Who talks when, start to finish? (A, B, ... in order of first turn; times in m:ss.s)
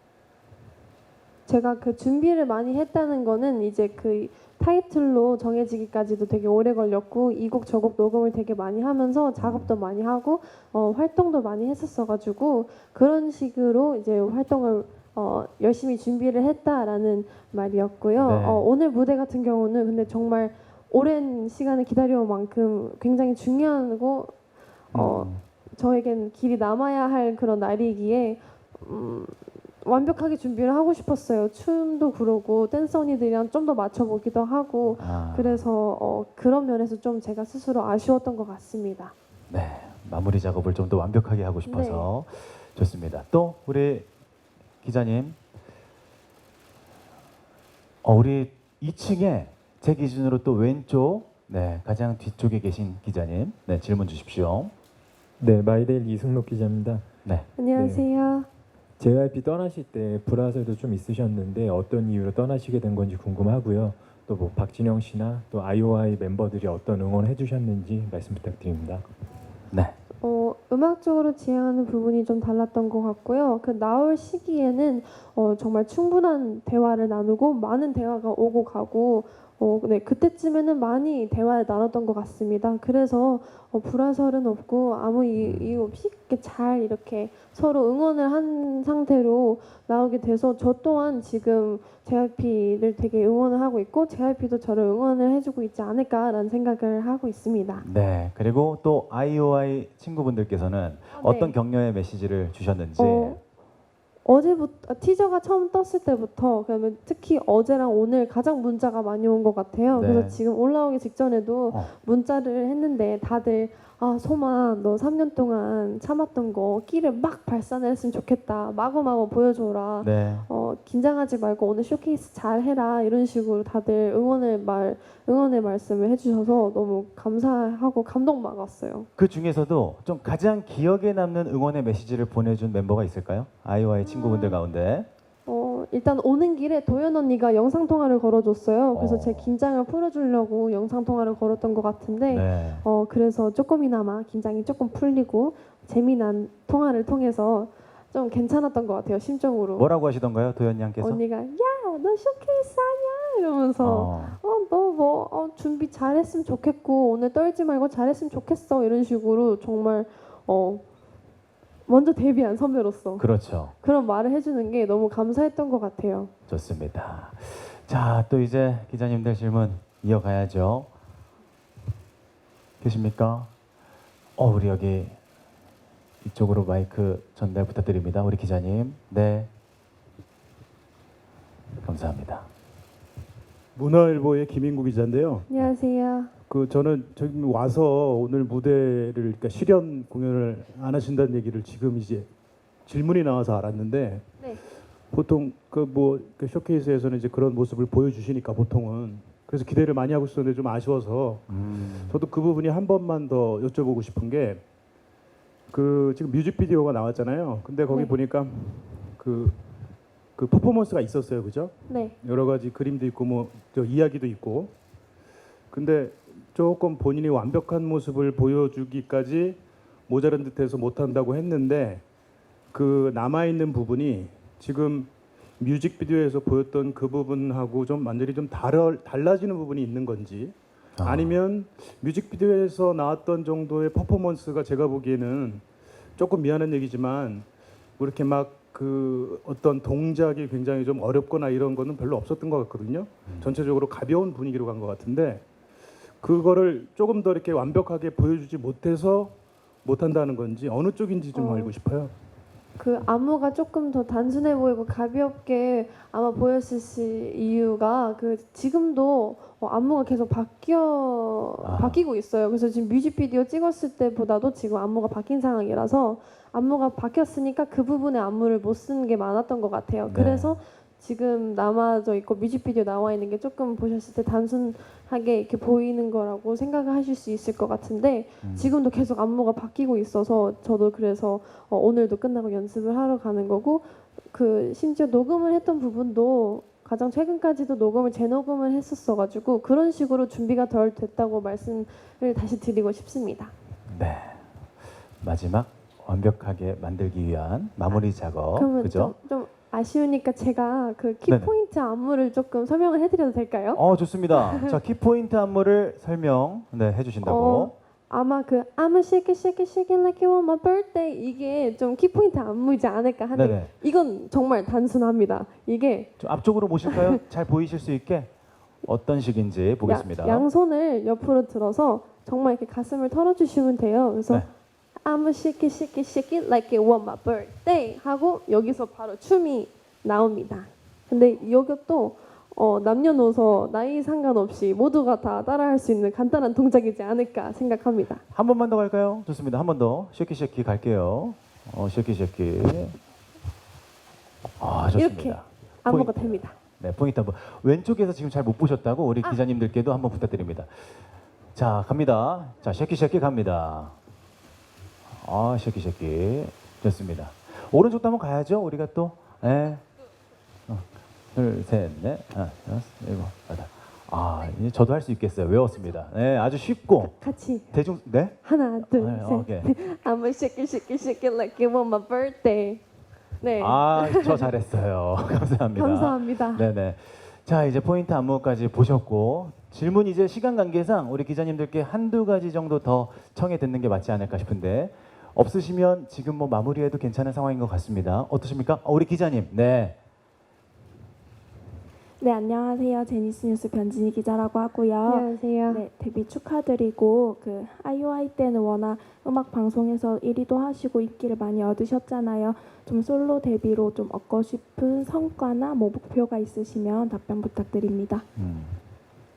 0:01.5-0:24.3 A
0:09.4-0:09.7 B
0:18.2-0:18.6 B
0:24.9-0:25.4 B
0:24.9-0:39.1 A
0:35.0-0:35.6 B
0:39.5-0:44.1 B
0:41.7-0:42.1 A
0:44.8-0:45.4 B
0:48.0-0:54.7 B
0:55.4-0:57.2 C
0:57.6-0:58.5 A
0:57.8-0:58.0 C
0:59.0-1:09.1 C
1:09.7-1:10.0 B
1:10.2-1:37.8 A
1:25.4-1:25.8 B
1:37.8-1:43.4 B
1:41.1-1:41.5 A
1:43.0-1:43.4 A
1:44.2-2:09.1 A
1:49.9-1:50.4 B
2:00.0-2:00.5 B
2:09.2-2:15.1 B
2:14.0-2:14.6 A
2:15.5-2:29.9 A
2:18.9-2:19.5 B
2:22.3-2:22.8 B
2:29.8-2:31.2 B
2:31.0-2:40.8 A
2:33.8-2:34.4 B
2:41.9-2:46.3 A
2:43.2-2:43.7 B
2:46.5-2:50.9 B
2:52.8-2:53.5 B
2:54.4-2:55.2 B
2:56.2-2:59.5 B
3:01.8-3:02.5 B
3:03.8-3:05.5 D
3:05.5-3:06.3 A
3:06.5-3:12.3 D
3:12.8-3:14.4 D
3:15.1-3:24.6 D
3:21.5-3:22.2 B
3:25.7-3:29.6 D
3:30.4-3:34.7 D
3:31.9-3:32.1 A
3:35.7-3:42.0 D
3:42.7-3:55.7 D
3:51.0-3:51.4 B
3:56.2-4:05.5 D
4:03.3-4:03.5 B
4:06.2-4:12.1 D
4:11.3-4:11.7 A
4:12.8-4:53.5 A
4:21.6-4:22.0 B
4:30.1-4:30.6 B
4:38.4-4:38.7 B
4:53.9-4:54.4 B
4:55.2-4:59.2 B
4:58.5-5:03.8 A
5:01.3-5:01.5 B
5:03.8-5:07.7 B
5:04.3-5:04.8 A
5:07.2-5:16.2 A
5:13.3-5:13.7 B
5:16.2-5:18.3 B
5:16.8-5:17.2 A
5:18.8-5:20.5 B
5:19.8-5:24.5 A
5:25.0-5:38.2 A
5:38.3-5:43.0 B
5:44.6-5:51.0 B
5:45.0-5:46.6 A
5:51.6-5:54.0 B
5:55.2-5:59.8 B
6:00.7-6:07.1 B
6:07.0-6:07.7 A
6:07.7-6:09.7 B
6:08.4-6:12.8 A
6:13.4-6:14.5 A
6:13.6-6:30.0 B
6:15.8-6:16.7 A
6:32.2-6:48.3 E
6:35.1-6:35.8 A
6:48.4-6:48.8 B